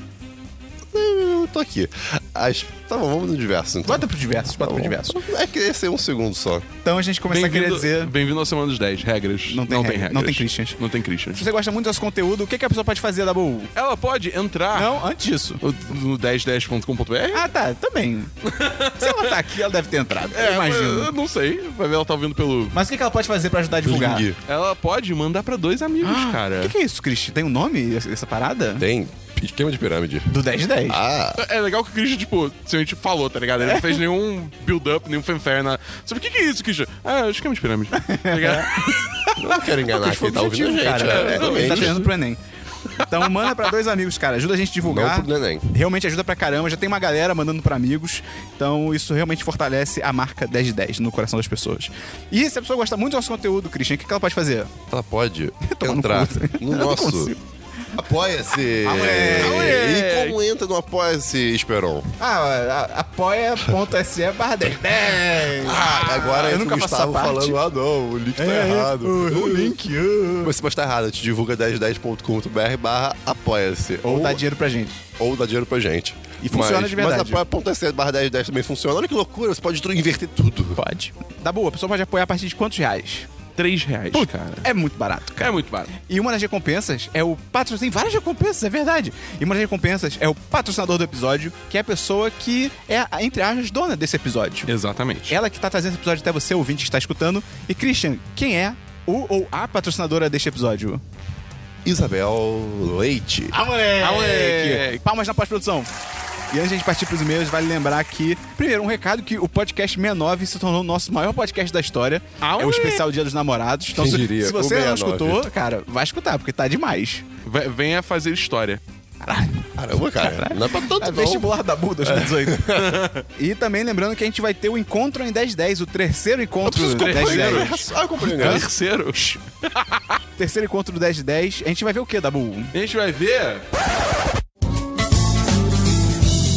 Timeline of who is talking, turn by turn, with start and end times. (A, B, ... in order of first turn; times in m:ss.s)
0:00.9-0:06.6 A
0:03.8-0:05.2 B
0:06.8-0:08.1 B
0:07.3-0:11.4 C
0:09.5-0:10.8 B
0:11.3-0:13.7 B
0:13.7-0:15.0 C
0:14.7-0:15.6 B
0:15.6-0:17.5 C
0:17.3-0:18.3 B
0:18.4-0:19.3 C
0:19.0-0:21.1 B
0:20.3-0:22.8 C
0:22.7-0:24.2 B
0:23.8-0:24.4 A
0:24.4-0:26.7 C
0:26.0-0:28.8 B
0:28.8-0:30.3 A
0:30.3-0:31.0 B
0:30.8-0:31.4 A
0:31.4-0:39.0 C
0:33.6-0:34.0 B
0:37.9-0:38.8 B
0:39.4-0:42.1 A
0:39.9-0:42.4 B
0:41.0-0:42.0 C
0:43.0-0:54.7 B
0:44.8-0:45.7 A
0:54.9-0:57.3 A
0:55.6-0:57.4 B
0:57.9-1:02.0 A
0:58.8-0:59.8 B
0:59.2-1:00.4 C
1:02.2-1:07.6 B
1:05.5-1:09.8 A
1:08.4-1:10.5 B
1:10.4-1:14.4 A
1:14.0-1:15.0 B
1:15.2-1:20.8 A
1:16.4-1:17.4 B
1:20.8-1:23.3 B
1:23.6-1:24.7 C
1:24.1-1:34.7 B
1:25.4-1:25.9 C
1:34.7-1:35.4 C
1:35.3-1:41.0 B
1:41.8-1:43.6 A
1:43.5-1:45.9 B
1:44.0-1:44.9 C
1:46.5-1:57.2 B
1:52.4-1:53.0 C
1:54.0-1:55.5 A
1:57.4-1:58.8 C
1:59.2-2:02.7 B
1:59.8-2:03.0 A
2:02.7-2:03.2 C
2:03.4-2:07.8 B
2:06.6-2:10.0 C
2:06.8-2:08.7 A
2:08.3-2:09.4 B
2:10.4-2:12.7 B
2:12.7-2:13.6 C